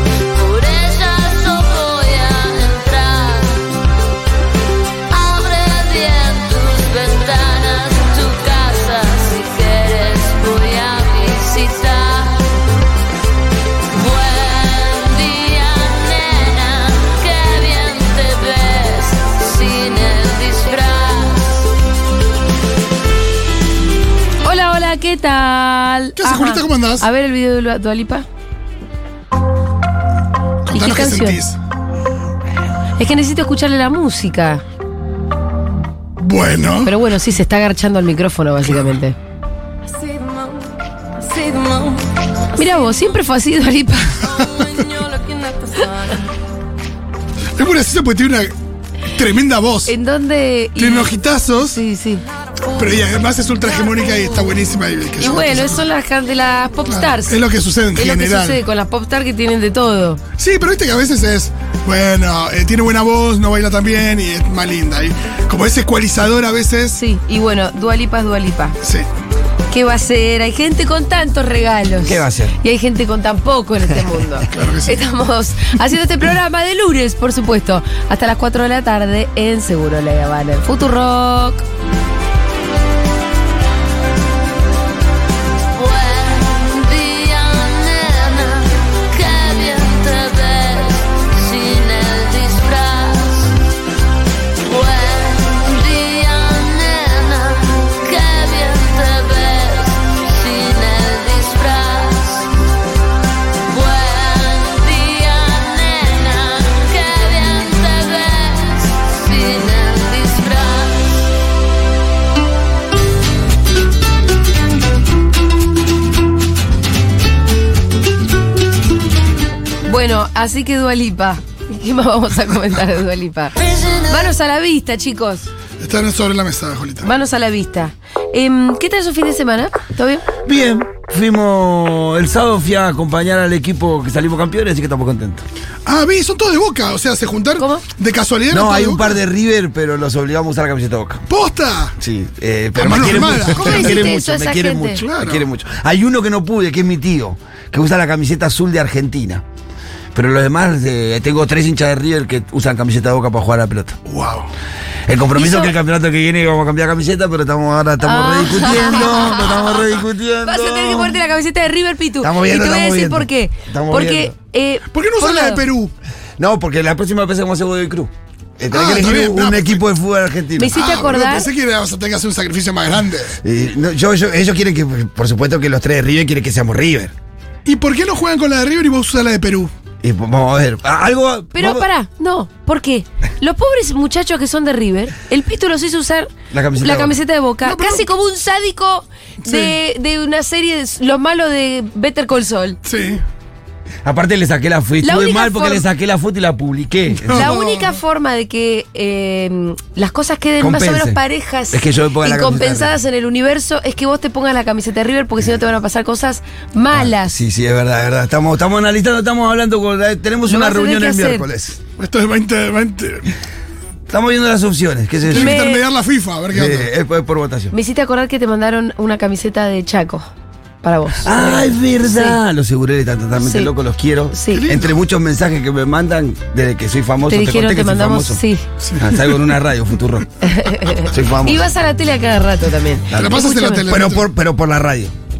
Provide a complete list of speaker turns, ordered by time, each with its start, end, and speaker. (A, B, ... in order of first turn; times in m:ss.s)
0:00.3-0:03.7 A
0:05.1-0:12.5 A
0:13.9-0:21.7 A
0:24.4-0:28.2 B
0:26.2-0:27.0 C
0:30.6-0:31.6 C
0:30.7-0:31.4 B
0:33.0-0:34.6 B
0:36.2-0:36.9 C
0:36.8-0:39.2 B
0:41.4-0:41.9 A
0:42.6-0:44.2 B
0:44.8-0:45.6 A
0:47.6-0:48.5 C
0:49.1-0:49.9 C
0:49.8-0:52.2 B
0:50.8-0:51.8 C
0:52.7-0:55.8 C
0:55.2-0:57.4 B
0:56.9-0:58.6 C
0:57.9-1:00.2 B
1:00.4-1:07.0 C
1:07.0-1:08.8 B
1:09.7-1:21.6 B
1:12.0-1:12.6 D
1:14.5-1:15.0 C
1:25.7-1:33.5 A
1:34.6-1:42.5 A
1:43.7-1:51.3 A
1:59.8-2:05.5 B
2:05.8-2:07.1 C
2:07.0-2:10.2 B
2:10.4-2:15.4 D
2:15.8-2:19.1 C
2:17.6-2:17.8 B
2:18.5-2:21.2 D
2:21.3-2:22.0 C
2:22.0-2:29.4 D
2:22.8-2:24.1 C
2:23.4-2:25.0 B
2:25.0-2:25.4 C
2:30.1-2:34.0 D
2:34.1-2:34.5 C
2:35.1-2:41.2 D
2:35.3-2:35.7 B
2:38.0-2:39.8 B
2:40.4-2:45.6 B
2:42.2-2:44.3 D
2:44.9-2:45.9 C
2:46.4-2:50.7 D
2:48.7-2:49.8 C
2:50.6-2:51.5 B
2:50.7-2:53.3 C
2:53.4-2:57.1 D
2:57.6-2:59.7 C
3:00.0-3:01.9 D
3:01.5-3:12.8 B
3:06.5-3:07.1 D
3:07.6-3:08.0 C
3:09.4-3:09.7 C
3:12.8-3:13.2 C
3:14.0-3:17.5 D
3:15.0-3:15.8 B
3:17.2-3:17.9 C
3:17.3-3:27.3 B
3:20.6-3:21.2 D
3:21.7-3:22.9 D
3:26.9-3:31.8 D
3:30.5-3:31.4 B
3:32.0-3:33.3 C
3:34.1-3:35.6 D
3:35.2-3:36.9 C
3:35.3-3:35.8 B
3:36.5-3:37.7 D
3:37.7-3:40.2 B
3:40.8-3:42.4 B
3:41.2-3:48.4 D
3:43.4-3:43.7 B
3:44.3-3:44.6 B
3:44.5-3:45.0 C
3:47.3-3:48.6 B
3:48.8-3:49.2 C
3:49.0-3:50.3 D
3:50.4-3:53.9 B
3:51.1-3:51.7 D
3:53.1-3:55.1 D
3:53.1-3:54.2 C